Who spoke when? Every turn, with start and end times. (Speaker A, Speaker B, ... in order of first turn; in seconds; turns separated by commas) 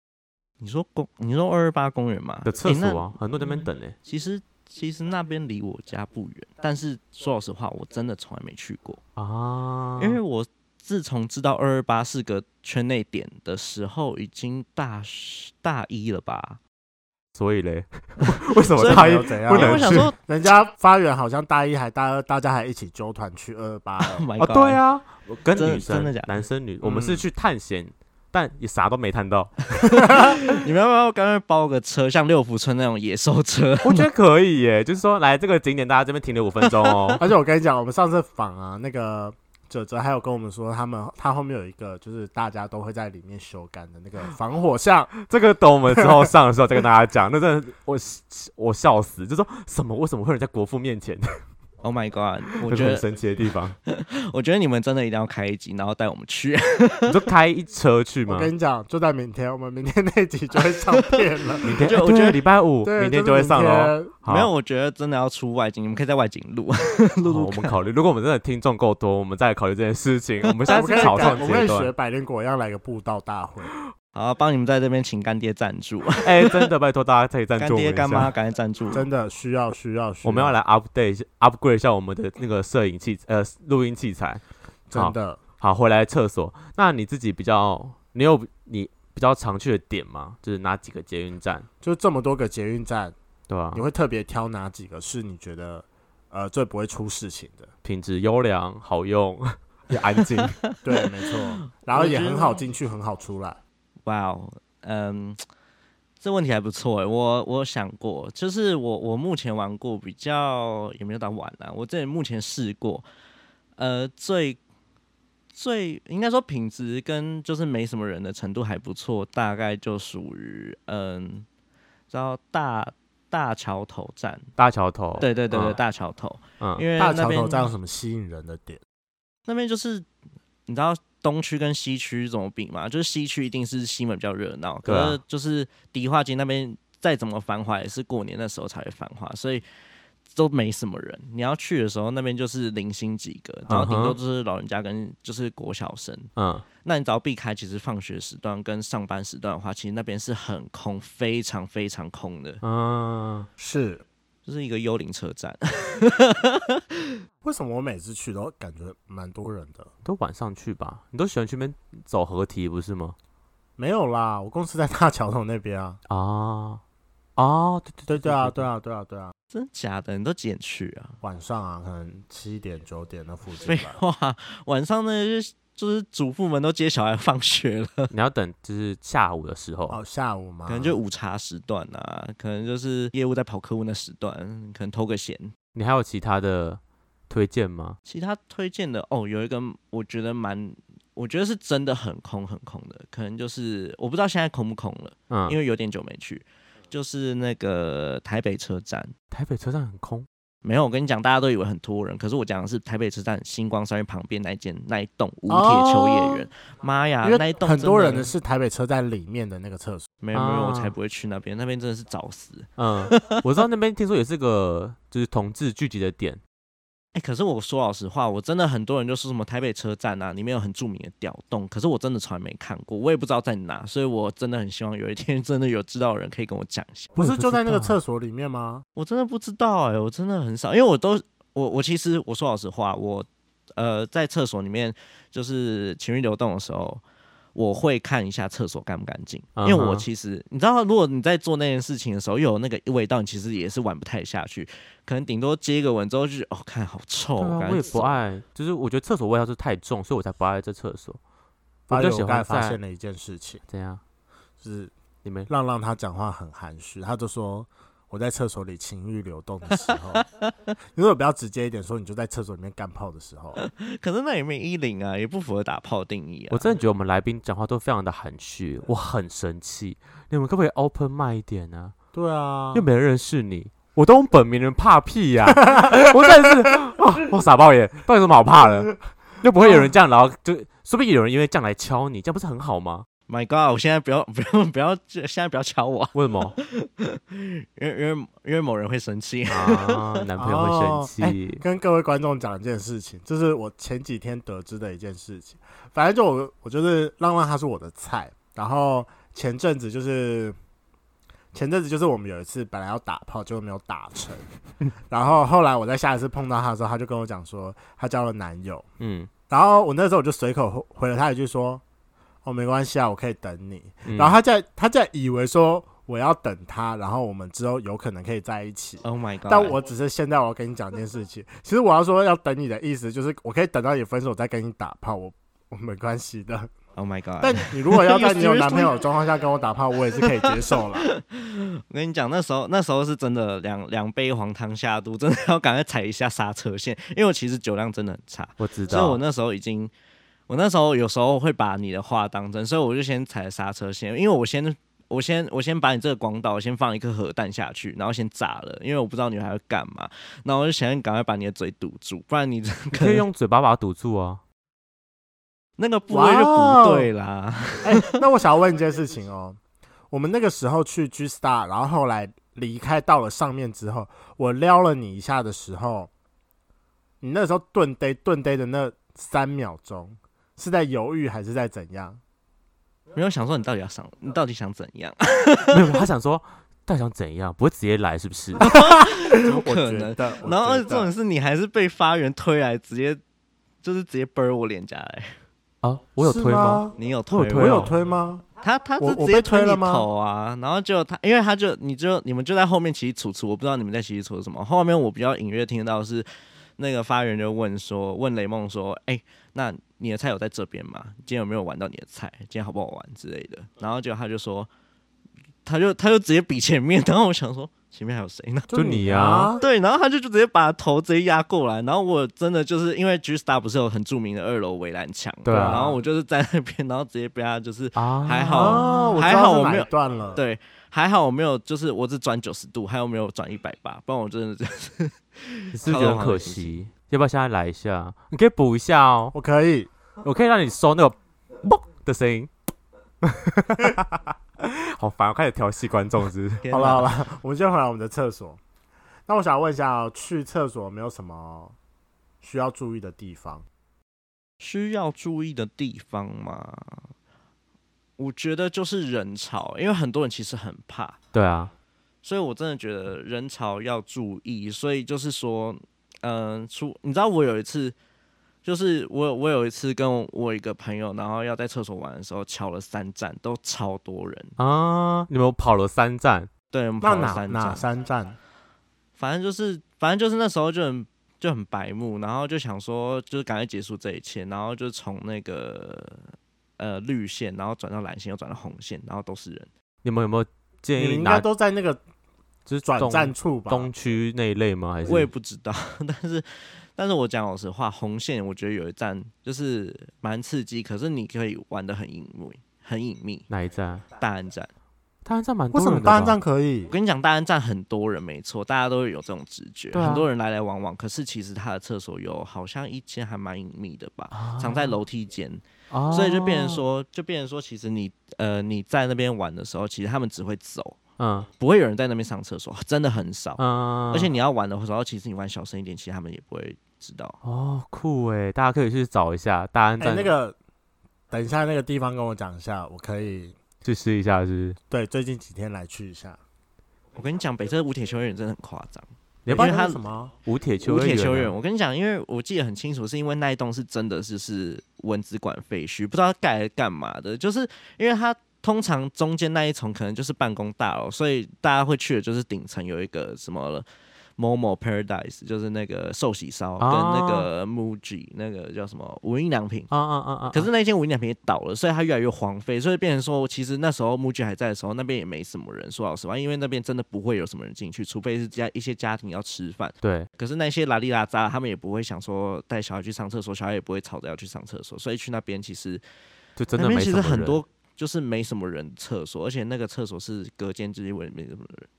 Speaker A: 0.6-9.0, Speaker B: 2.4-3.9, Speaker B: 9.2-10.2, Speaker A: 10.0-16.6, Speaker B: 17.3-20.1, Speaker A: 18.2-20.2, Speaker C: 18.8-24.2, Speaker A: 24.0-24.8, Speaker B: 24.4-29.9, Speaker A: 25.5-26.3, Speaker C: 26.8-27.2, Speaker A: 29.8-34.0, Speaker C: 30.1-30.3, Speaker B: 33.8-37.2, Speaker A: 36.8-37.1, Speaker C: 37.2-45.1, Speaker B: 45.2-51.4, Speaker C: 46.0-46.2, Speaker A: 51.8-53.1, Speaker B: 52.6-53.8, Speaker A: 53.9-57.2, Speaker B: 57.1-58.5, Speaker C: 58.3-61.7, Speaker A: 60.9-62.4, Speaker B: 61.6-64.5, Speaker C: 62.8-64.1, Speaker A: 64.2-67.7, Speaker B: 67.2-71.9, Speaker A: 70.5-71.5, Speaker C: 70.7-73.7, Speaker A: 74.1-76.7, Speaker B: 76.2-78.3, Speaker A: 77.6-79.0, Speaker C: 78.9-80.5, Speaker B: 80.2-84.4, Speaker C: 84.9-85.4, Speaker B: 84.9-91.7, Speaker C: 91.8-93.1, Speaker B: 93.5-93.8, Speaker C: 93.7-97.7, Speaker B: 97.8-100.6, Speaker A: 100.5-100.8, Speaker C: 100.8-103.6, Speaker A: 101.6-102.6, Speaker A: 104.0-105.4, Speaker A: 106.2-113.0, Speaker A: 113.8-114.6, Speaker A: 115.5-121.5, Speaker A: 122.1-124.5, Speaker B: 124.6-125.8, Speaker A: 125.2-127.7, Speaker B: 126.6-126.8, Speaker C: 127.0-128.8, Speaker A: 129.5-130.1, Speaker A: 130.7-139.6, Speaker B: 134.8-135.2, Speaker A: 140.3-146.3, Speaker B: 143.7-144.2, Speaker B: 146.3-146.6, Speaker A: 146.8-152.6, Speaker B: 152.6-153.5, Speaker C: 153.6-154.0, Speaker A: 154.4-157.0, Speaker C: 157.4-159.9, Speaker B: 160.0-163.2, Speaker C: 163.8-166.0, Speaker B: 166.1-166.8, Speaker B: 167.3-168.7, Speaker C: 168.1-169.3, Speaker A: 169.5-171.2, Speaker C: 171.2-174.0, Speaker A: 173.6-178.1, Speaker B: 178.1-180.0, Speaker C: 179.9-181.0, Speaker A: 180.7-185.5, Speaker B: 185.7-188.0, Speaker A: 188.1-199.1, Speaker B: 195.3-195.6, Speaker B: 199.3-200.3, Speaker A: 200.6-208.3, Speaker C: 205.5-206.4, Speaker C: 207.2-210.1, Speaker A: 210.2-213.4, Speaker B: 210.3-210.9, Speaker B: 212.8-216.4, Speaker A: 217.1-227.1, Speaker C: 227.2-228.8, Speaker B: 227.2-227.9, Speaker A: 228.9-237.0, Speaker A: 237.5-248.2, Speaker B: 239.6-240.1, Speaker B: 247.4-251.2, Speaker C: 251.9-253.6, Speaker B: 251.9-252.8, Speaker B: 253.7-254.0, Speaker C: 254.6-254.9, Speaker B: 255.2-255.5, Speaker C: 255.5-260.2, Speaker A: 259.9-260.5, Speaker C: 260.9-263.6, Speaker A: 263.6-266.7, Speaker B: 266.5-271.9, Speaker C: 272.1-272.8, Speaker B: 272.7-283.1, Speaker C: 279.6-279.9, Speaker A: 283.3-290.2, Speaker B: 286.1-286.6, Speaker B: 289.5-291.6, Speaker C: 290.4-300.6, Speaker C: 301.5-304.5, Speaker C: 305.1-308.9, Speaker B: 309.0-309.3, Speaker C: 309.5-311.8, Speaker C: 312.4-326.7, Speaker B: 314.0-314.4, Speaker A: 319.0-319.8, Speaker A: 326.9-329.0, Speaker C: 327.4-331.1, Speaker A: 330.4-339.9, Speaker B: 338.6-339.2, Speaker A: 340.5-353.2, Speaker B: 352.9-354.4, Speaker A: 355.8-358.2, Speaker C: 356.1-357.1, Speaker C: 357.8-359.6, Speaker C: 360.1-366.1, Speaker C: 367.2-372.2, Speaker A: 373.1-376.0, Speaker B: 375.7-378.6, Speaker A: 378.6-383.2, Speaker C: 378.7-381.1, Speaker A: 383.8-385.4, Speaker B: 385.8-387.9, Speaker C: 386.2-386.9, Speaker A: 386.9-387.9, Speaker C: 387.5-388.4, Speaker A: 388.6-404.7, Speaker C: 389.0-390.1, Speaker A: 405.6-408.7, Speaker C: 408.7-409.6, Speaker B: 408.7-409.5, Speaker A: 409.6-426.8, Speaker B: 415.4-415.9, Speaker C: 415.5-416.0, Speaker B: 417.9-419.2, Speaker C: 418.5-420.4, Speaker B: 425.7-429.3, Speaker C: 429.3-429.9, Speaker B: 430.2-432.5, Speaker B: 433.2-436.6, Speaker A: 436.6-437.1, Speaker C: 436.7-438.6, Speaker C: 439.3-441.8, Speaker C: 442.4-443.6, Speaker A: 444.6-447.1, Speaker A: 448.2-451.2, Speaker B: 451.3-451.7, Speaker A: 452.2-457.9, Speaker A: 458.6-464.6, Speaker B: 464.6-466.5, Speaker A: 466.7-467.8, Speaker C: 467.0-468.4, Speaker A: 469.2-479.7, Speaker B: 480.0-481.5, Speaker C: 480.9-482.0, Speaker B: 482.6-485.3, Speaker C: 482.8-483.9, Speaker A: 485.0-493.5, Speaker B: 493.5-494.0, Speaker A: 494.1-494.7, Speaker B: 495.2-496.4, Speaker C: 495.7-496.9, Speaker A: 496.9-511.0, Speaker B: 499.9-500.3, Speaker B: 504.3-505.0, Speaker B: 505.9-506.8, Speaker B: 511.2-511.5, Speaker A: 511.6-517.4, Speaker B: 513.6-514.3, Speaker B: 517.4-520.3, Speaker C: 520.0-520.5, Speaker C: 521.3-523.6, Speaker B: 523.8-524.8, Speaker C: 524.9-526.4, Speaker A: 527.1-530.0, Speaker B: 529.4-529.8, Speaker C: 529.5-530.3, Speaker B: 530.4-531.5, Speaker A: 530.8-543.9, Speaker A: 544.4-549.9, Speaker B: 546.8-547.5, Speaker B: 549.9-550.7, Speaker A: 550.5-566.0, Speaker B: 560.0-560.3, Speaker B: 566.6-567.6, Speaker A: 566.8-571.9